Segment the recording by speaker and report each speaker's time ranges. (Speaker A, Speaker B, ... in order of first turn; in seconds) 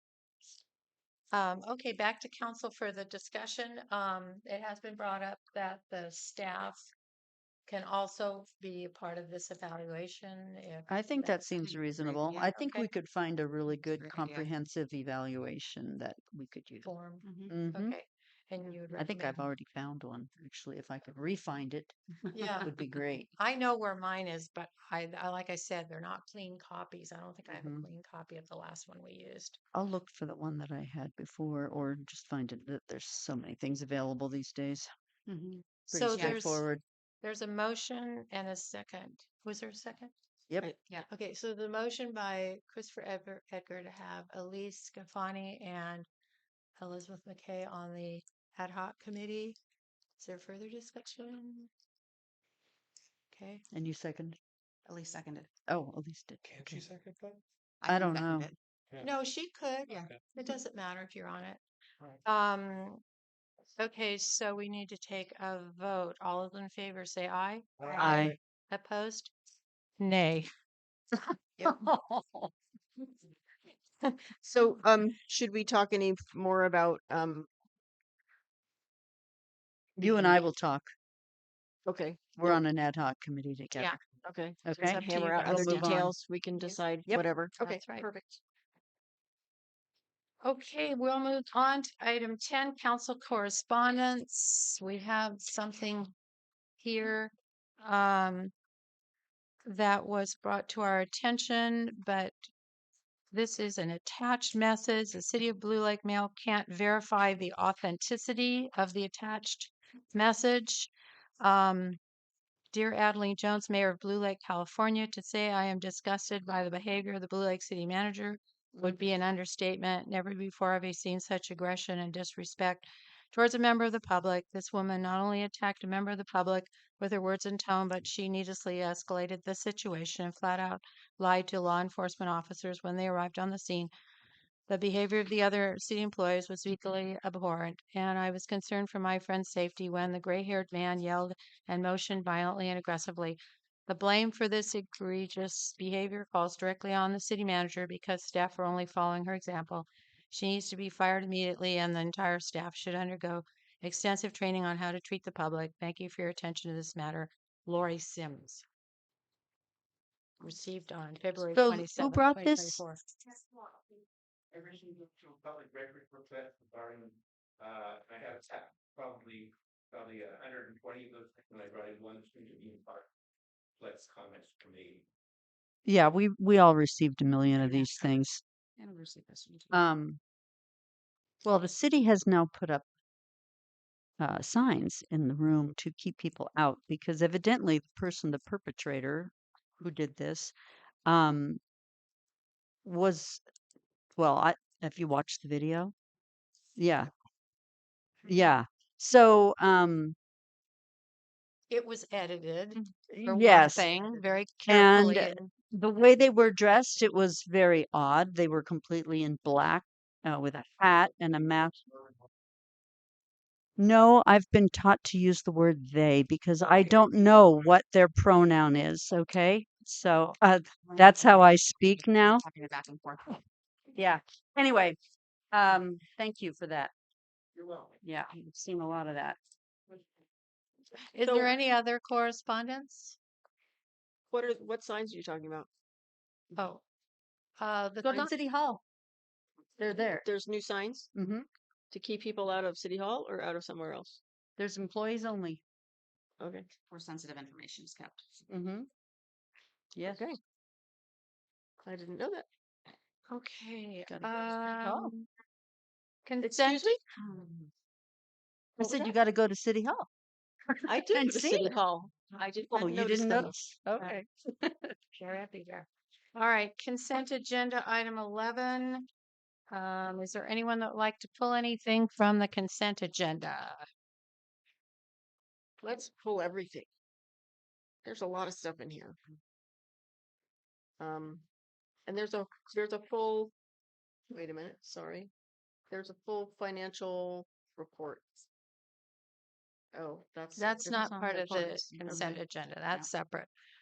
Speaker A: 1.3-6.9, 7.7-11.3, 12.6-12.9, 16.8-19.5, 22.3-22.7, 23.4-29.6, 35.9-36.6, 37.2-40.1, 41.1-46.1, 46.8-49.6, 50.2-51.7, 53.3-53.6, 59.0-61.6, 62.2-63.0, 63.8-69.3, 70.0-70.5, 84.7-86.1, 87.6-88.1, 90.4-96.1, 96.8-98.5, 99.7-102.4, 103.3-112.0, 112.7-133.9, 134.7-158.6, 160.4-163.0, 201.7-205.5, 231.1-233.2, 236.6-236.8, 237.6-238.3, 253.3-255.3, 256.3-257.0, 265.1-269.1, 269.7-273.9, 290.6-293.5
Speaker B: 10.9-16.9, 17.5-18.0, 18.9-23.3, 27.5-27.9, 29.7-34.9, 35.9-36.8, 53.7-54.4, 55.7-56.9, 57.9-58.5, 68.0-68.4, 71.6-72.5, 80.0-80.9, 82.4-84.0, 84.7-86.2, 161.5-162.8, 175.9-178.4, 179.7-180.2, 181.4-182.9, 184.2-190.5, 191.1-191.6, 192.8-193.4, 194.2-195.9, 196.8-197.1, 198.3-200.2, 203.1-203.9, 204.7-211.8, 213.8-222.4, 223.9-225.0, 225.5-226.9, 228.0-229.4, 238.0-238.8, 239.8-240.3, 241.1-241.5, 244.6-245.6, 248.5-248.9, 249.9-250.2, 254.1-255.1, 258.8-260.1, 261.0-261.8, 262.8-264.9
Speaker C: 11.6-12.5, 13.9-14.5, 17.2-17.5, 35.3-36.5, 54.9-55.5, 57.8-58.6, 67.8-68.2, 177.5-178.2, 178.8-179.8, 220.9-223.4, 246.9-248.4, 257.2-257.5, 291.0-293.1
Speaker D: 74.4-77.5, 80.0-80.4, 81.9-82.6, 84.2-88.4, 231.2-231.6, 234.3-235.7, 240.2-241.1, 241.9-244.2, 246.4-246.7, 250.1-250.4, 251.8-252.5, 256.4-257.0, 260.9-263.6, 275.8-276.9, 278.0-279.2, 281.0-281.4, 282.1-283.5, 284.3-285.3, 285.9-288.3, 289.9-291.7
Speaker E: 164.5-173.1, 173.8-175.1